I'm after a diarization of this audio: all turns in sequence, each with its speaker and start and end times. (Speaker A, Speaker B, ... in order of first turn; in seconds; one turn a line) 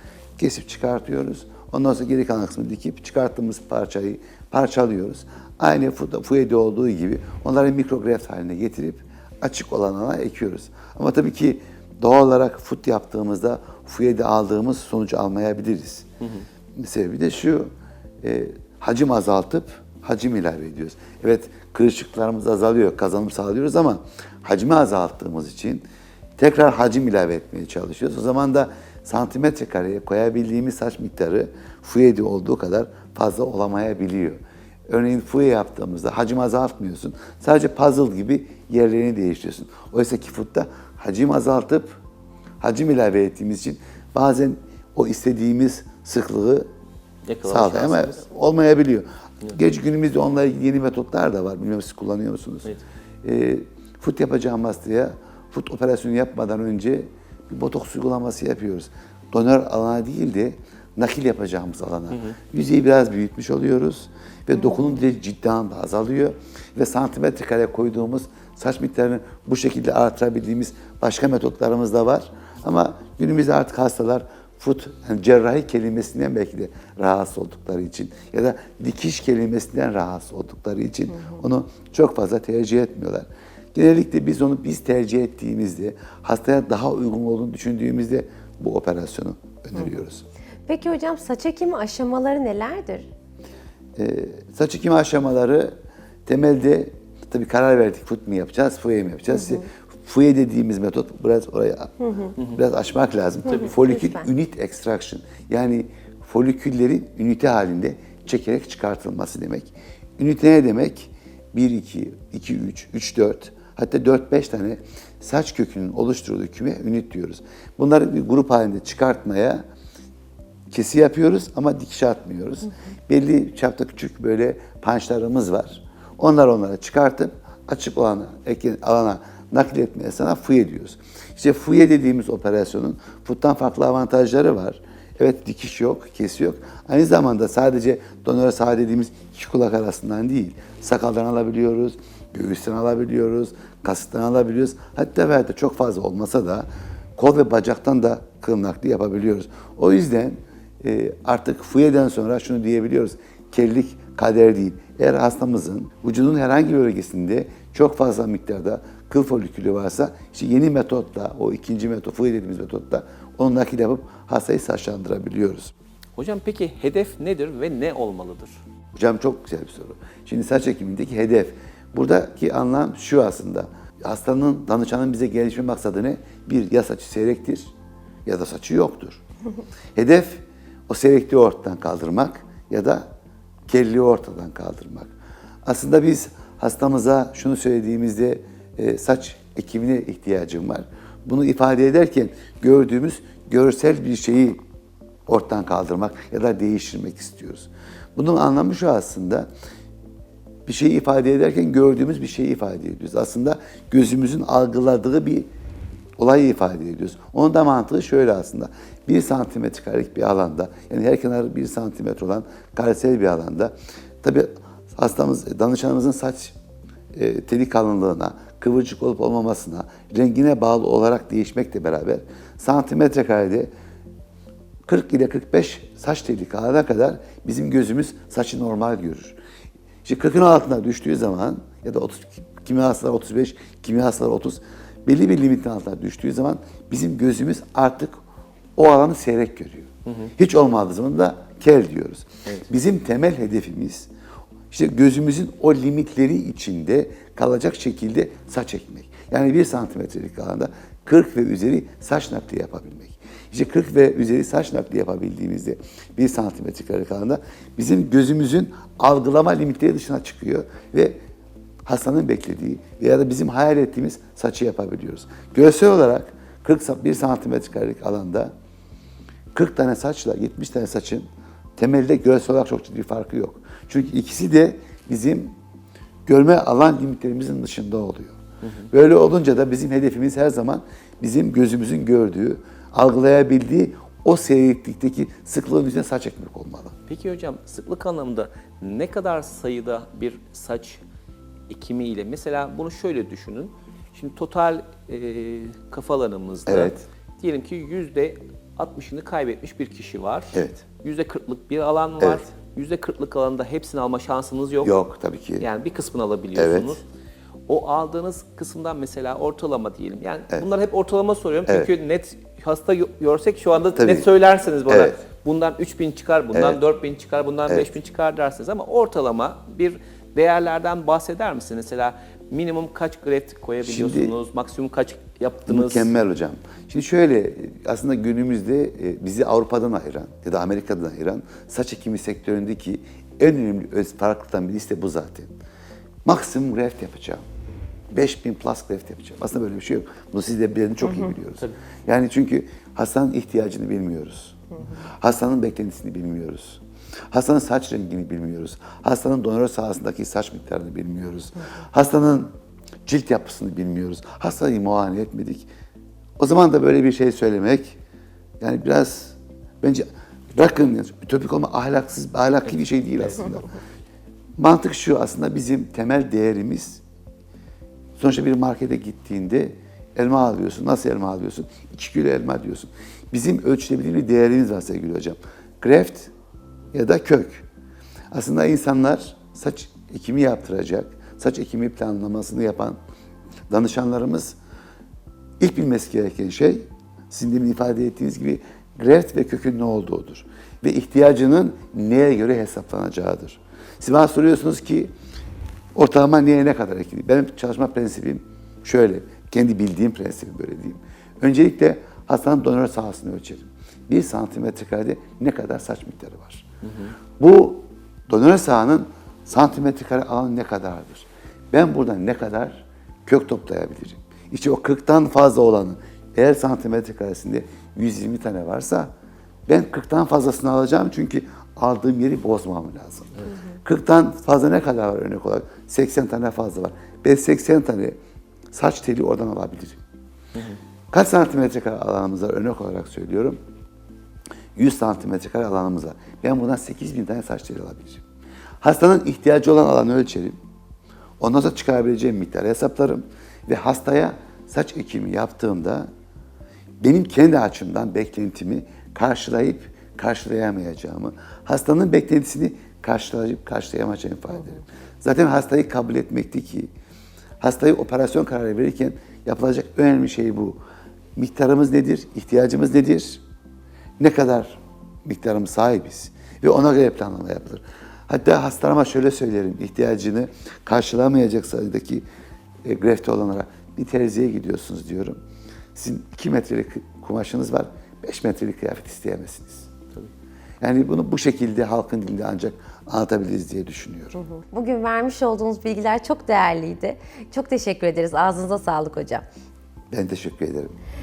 Speaker A: 0.4-16.1
Speaker A: 16.8-17.7
Speaker A: 18.2-25.8
Speaker A: 26.4-42.0
Speaker A: 42.6-46.7
Speaker B: 47.2-48.2
Speaker A: 47.4-52.7
Speaker A: 53.2-90.2
Speaker C: 90.7-93.1
Speaker A: 94.0-95.7
Speaker A: 96.2-119.6
Speaker C: 99.3-99.6
Speaker C: 103.5-104.3
Speaker A: 120.7-165.7
Speaker B: 166.2-168.6
Speaker A: 168.9-177.7
Speaker A: 178.2-179.2
Speaker A: 179.9-183.0
Speaker A: 183.7-185.1
Speaker A: 185.6-194.6
Speaker A: 195.3-199.5
Speaker A: 200.7-205.5
Speaker A: 206.2-216.5
Speaker A: 217.1-223.7
Speaker A: 224.8-229.4
Speaker A: 230.0-238.2
Speaker A: 238.8-244.1
Speaker B: 240.1-240.3
Speaker A: 244.7-261.2
Speaker A: 261.9-268.5
Speaker A: 269.5-275.5
Speaker A: 276.2-278.4
Speaker A: 278.9-286.9
Speaker B: 287.1-291.0
Speaker B: 291.7-304.9
Speaker A: 296.6-297.0
Speaker A: 300.5-300.8
Speaker A: 304.8-305.6
Speaker B: 305.6-307.0
Speaker A: 306.5-307.0
Speaker B: 307.7-326.1
Speaker A: 311.7-311.9
Speaker A: 313.9-314.3
Speaker A: 314.9-315.2
Speaker A: 316.5-316.8
Speaker A: 323.8-324.3
Speaker A: 325.7-335.5
Speaker A: 336.2-337.4
Speaker A: 338.1-346.8
Speaker A: 347.3-352.5
Speaker A: 353.1-355.7
Speaker A: 356.4-358.0
Speaker A: 358.6-363.7
Speaker A: 364.6-367.0
Speaker A: 368.2-376.3
Speaker A: 376.9-377.6
Speaker A: 378.3-383.0
Speaker A: 383.7-384.6
Speaker A: 385.6-395.1
Speaker A: 395.9-406.6
Speaker B: 406.9-407.1
Speaker A: 407.4-419.1
Speaker A: 419.7-428.2
Speaker A: 428.7-430.0
Speaker A: 431.1-433.6
Speaker A: 434.7-438.2
Speaker A: 438.8-440.6
Speaker A: 441.4-446.1
Speaker A: 447.0-456.9
Speaker A: 457.6-460.8
Speaker A: 461.4-463.4
Speaker A: 464.2-472.2
Speaker A: 472.8-475.4
Speaker A: 475.9-479.9
Speaker A: 480.8-484.4
Speaker C: 484.4-489.4
Speaker A: 490.1-490.9